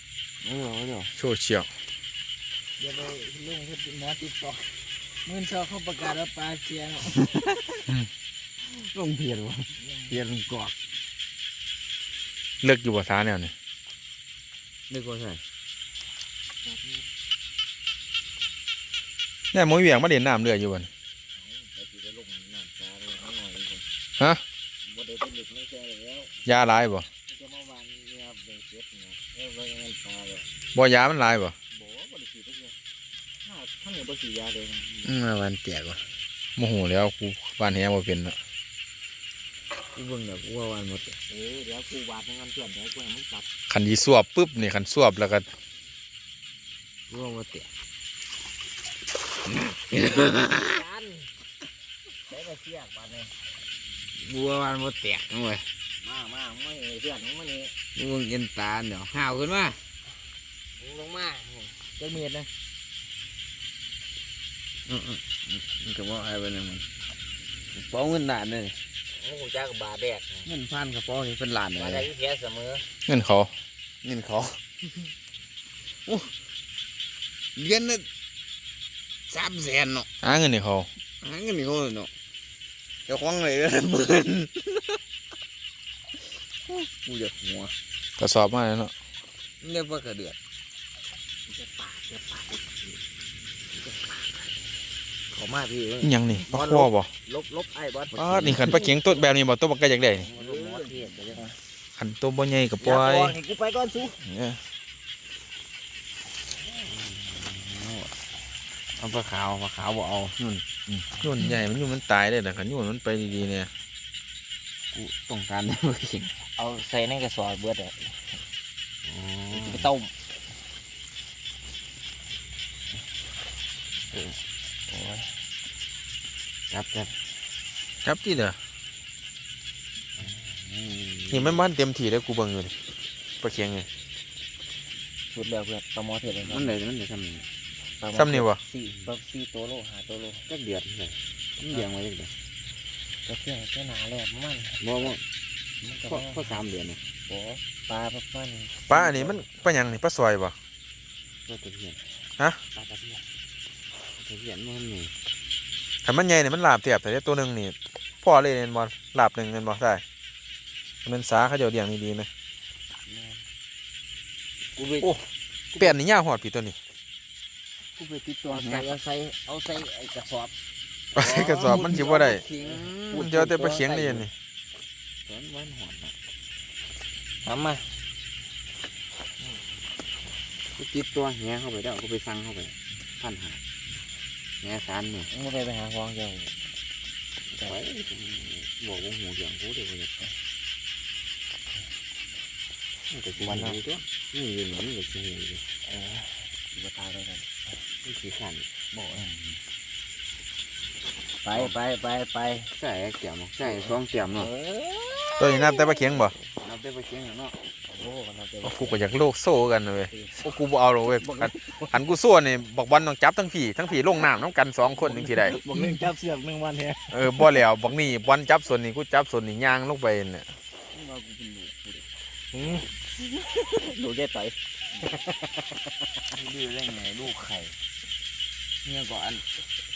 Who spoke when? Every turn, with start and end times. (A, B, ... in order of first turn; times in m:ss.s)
0:00.5-0:01.1 A
0:01.1-0:01.7 B
0:02.8-0:07.3 C
0:07.0-0:07.9 A
0:08.6-0:10.8 A
0:09.8-0:10.2 C
0:12.6-0:13.5 B
0:14.9-0:15.4 A
0:19.5-0:20.9 B
0:21.4-0:23.8 C
0:24.8-0:26.3 C
0:26.4-0:27.1 B
0:27.3-0:30.5 C
0:30.7-0:31.5 B
0:31.7-0:32.8 C
0:33.4-0:35.2 C
0:35.0-0:36.0 A
0:36.6-0:38.4 B
0:39.9-0:41.2 A
0:41.3-0:43.5 C
0:43.7-0:45.4 B
0:47.1-0:47.7 A
0:49.4-0:50.8 A
0:50.4-0:51.3 C
0:52.3-0:53.3 C
0:54.2-0:55.6 A
0:56.0-0:57.7 C
0:58.0-0:59.8 A
1:00.8-1:02.5 C
1:04.9-1:06.8 A
1:07.7-1:08.8 A
1:09.1-1:10.5 C
1:10.4-1:12.1 A
1:11.8-1:12.8 C
1:13.1-1:13.5 B
1:14.0-1:14.6 A
1:16.0-1:16.3 A
1:17.6-1:18.1 A
1:19.3-1:20.1 A
1:20.2-1:20.9 B
1:21.2-1:22.1 A
1:23.1-1:25.0 A
1:26.6-1:27.7 A
1:28.2-1:28.9 B
1:29.6-1:30.4 A
1:31.5-1:32.7 C
1:33.7-1:34.4 C
1:35.3-1:38.7 C
1:36.0-1:37.1 B
1:38.1-1:38.9 A
1:38.1-1:40.3 B
1:40.2-1:41.5 C
1:40.3-1:41.5 A
1:42.0-1:43.4 B
1:42.8-1:44.2 C
1:44.2-1:44.6 B
1:46.6-1:48.1 A
1:49.0-1:50.6 A
1:51.0-1:53.7 B
1:54.9-1:56.4 A
1:56.6-1:58.3 C
1:59.0-1:59.9 A
1:59.5-2:00.1 C
2:04.1-2:04.4 A
2:04.9-2:05.2 C
2:06.7-2:07.1 A
2:08.0-2:08.6 B
2:10.2-2:11.7 A
2:11.3-2:12.7 B
2:13.4-2:13.9 B
2:15.3-2:16.7 C
2:16.4-2:17.5 A
2:18.0-2:20.4 C
2:18.1-2:18.6 B
2:20.5-2:22.3 A
2:23.2-2:25.1 C
2:24.8-2:25.2 A
2:25.8-2:26.6 C
2:26.0-2:27.0 A
2:27.3-2:29.2 C
2:28.9-2:30.5 B
2:31.4-2:32.0 A
2:34.1-2:35.1 A
2:36.0-2:40.0 B
2:41.0-2:42.3 B
2:43.1-2:43.4 C
2:44.8-2:45.1 C
2:45.8-2:46.8 B
2:48.0-2:48.9 A
2:48.4-2:50.5 C
2:51.1-2:52.4 B
2:51.2-2:53.3 A
2:51.6-2:54.3 C
2:53.1-2:54.3 B
2:55.2-2:56.1 A
2:57.4-2:57.9 C
3:00.8-3:03.6 A
3:04.6-3:05.3 A
3:05.3-3:06.6 C
3:07.5-3:10.1 A
3:13.1-3:15.7 A
3:13.4-3:13.8 C
3:15.9-3:17.5 C
3:18.0-3:19.2 A
3:18.9-3:19.3 C
3:21.4-3:22.7 C
3:21.5-3:21.8 A
3:22.7-3:24.5 A
3:23.6-3:26.3 C
3:25.4-3:26.4 B
3:26.6-3:27.6 A
3:27.9-3:29.1 C
3:28.6-3:35.6 B
3:30.1-3:30.4 C
3:31.0-3:32.0 C
3:34.9-3:37.5 C
3:37.1-3:40.5 B
3:40.9-3:45.8 C
3:46.3-3:47.8 A
3:48.8-3:49.4 A